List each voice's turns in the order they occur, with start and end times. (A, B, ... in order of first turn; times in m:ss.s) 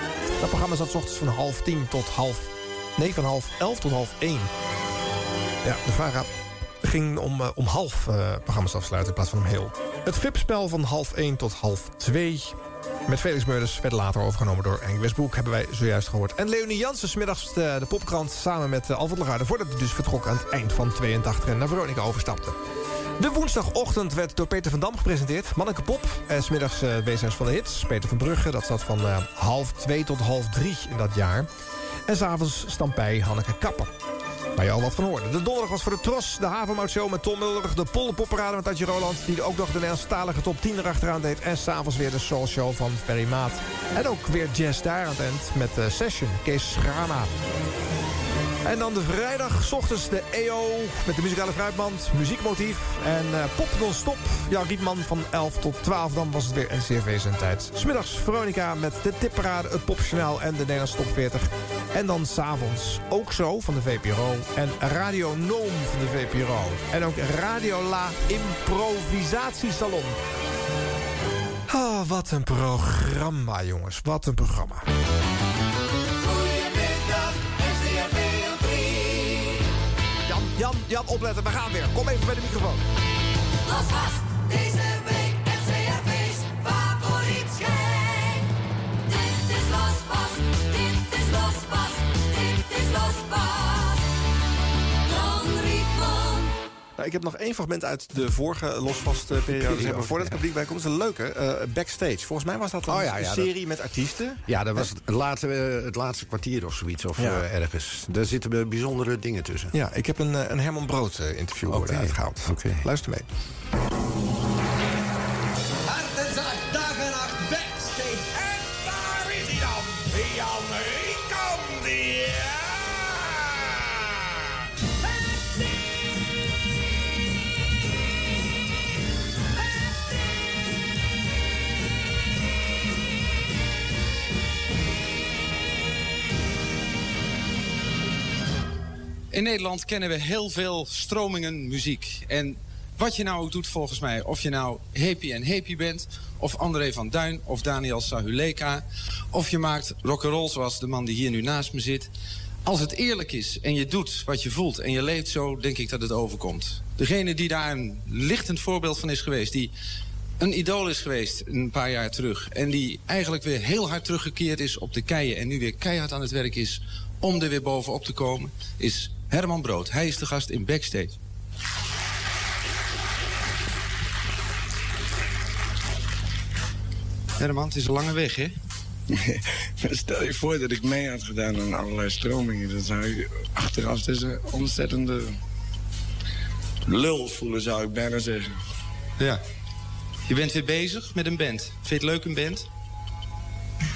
0:00.4-0:04.5 A
0:05.6-0:06.3 A
0:06.8-0:12.6 A
0:13.1-0:22.6 A
0:23.2-0:31.5 A
0:32.1-0:33.9 A
0:34.5-0:47.3 A
0:48.6-1:10.2 A
1:11.7-1:14.8 A
1:16.3-1:17.2 B
1:17.9-1:19.4 B
1:20.3-1:22.8 A
1:23.7-1:28.4 B
1:29.1-1:34.0 B
1:35.1-1:36.5 B
1:37.0-1:44.4 A
1:39.5-1:40.3 C
1:42.9-1:43.5 C
1:44.5-1:49.7 C
1:47.2-1:47.4 A
1:49.7-1:53.3 A
1:51.7-1:52.8 C
2:19.3-2:32.1 D
2:32.6-2:39.7 D
2:40.4-2:51.2 D
2:57.4-2:58.5 D
2:59.1-3:05.4 E
3:06.8-3:08.5 E
3:10.3-3:12.6 D